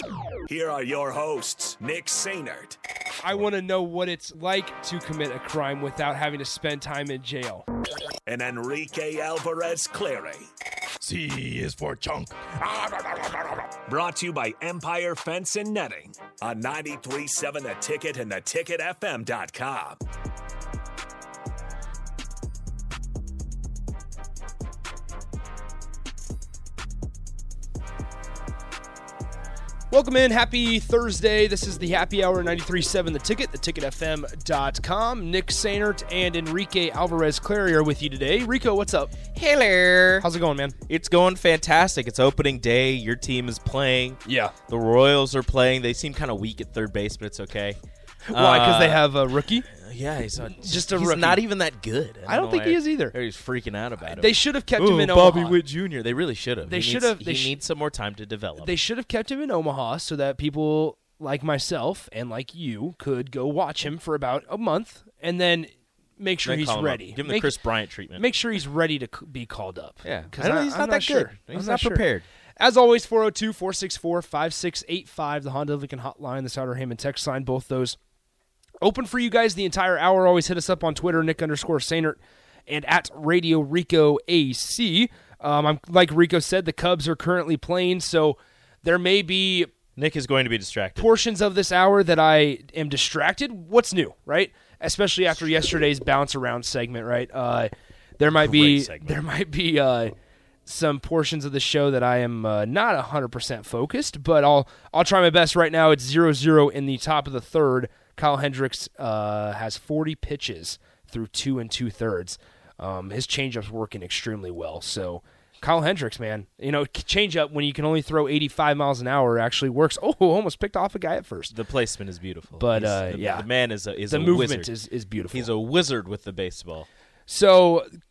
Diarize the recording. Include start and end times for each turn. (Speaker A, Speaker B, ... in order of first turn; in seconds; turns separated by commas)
Speaker A: 0.5-2.8, Speaker B: 3.2-7.6, Speaker A: 8.3-10.5, Speaker C: 11.0-13.7, Speaker A: 13.8-20.0, Speaker B: 29.9-39.1, Speaker C: 39.3-40.3, Speaker B: 40.2-40.8, Speaker C: 40.9-47.8, Speaker B: 44.2-44.5, Speaker B: 48.3-49.7, Speaker C: 48.3-58.7, Speaker B: 50.5-51.4, Speaker B: 52.2-53.1, Speaker B: 54.0-55.6, Speaker B: 56.6-57.5, Speaker B: 58.6-67.5, Speaker C: 66.4-68.2, Speaker B: 68.2-72.0, Speaker C: 70.0-72.2, Speaker B: 72.6-78.0, Speaker B: 78.8-89.7, Speaker C: 90.0-91.1, Speaker B: 91.0-100.1, Speaker C: 98.3-99.2, Speaker B: 100.7-121.5, Speaker C: 121.5-124.7, Speaker B: 122.6-123.5, Speaker B: 124.1-125.5, Speaker C: 125.3-126.9, Speaker B: 127.3-127.9